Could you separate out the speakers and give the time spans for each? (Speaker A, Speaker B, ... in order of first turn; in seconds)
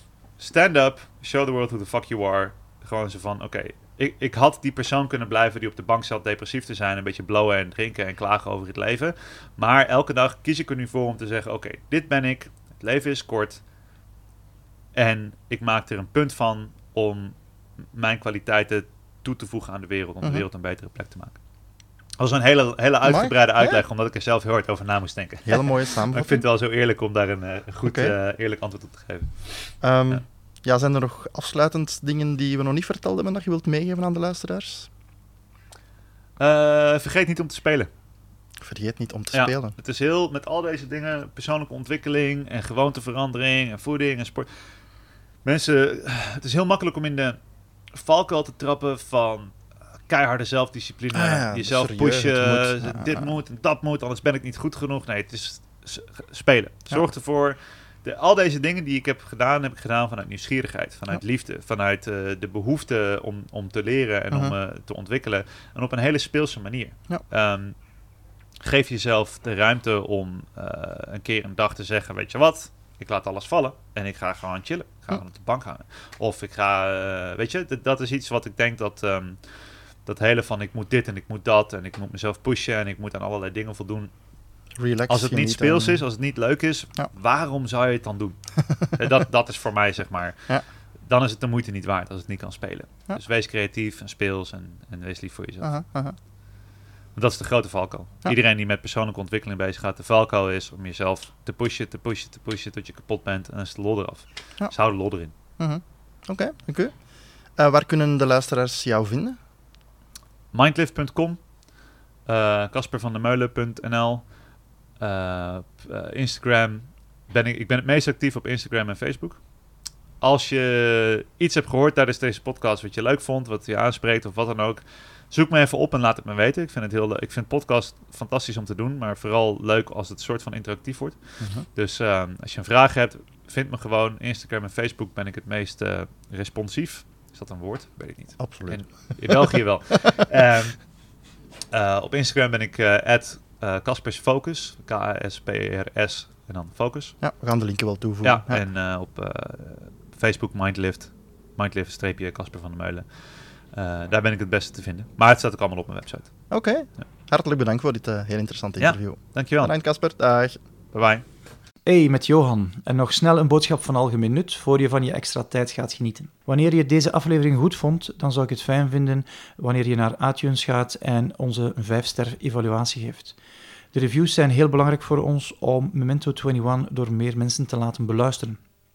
Speaker A: 0.4-13.6, 14.9-17.4, 17.9-21.4, 22.2-30.2, 36.4-37.9, 39.3-44.5, 45.5-47.4, 47.9-49.5, 50.1-67.8, 68.6-79.4, 80.1-84.1, 85.1-90.5, 91.1-95.8, 97.2-105.3, 110.5-111.4, 112.3-114.3, 115.0-119.4, 120.2-131.2, 131.8-140.8, 141.7-147.2, 148.2-153.1, 153.7-156.3, 158.8-159.7, 160.9-161.2
Speaker B: 23.1-23.8, 25.5-26.4, 27.9-28.1, 29.8-34.9, 38.6-39.7, 51.1-53.3, 84.8-86.0, 95.6-96.2, 105.6-106.9, 107.6-109.4, 138.4-139.6, 147.2-148.6, 156.5-160.6
Speaker C: 161.8-173.4, 173.9-178.6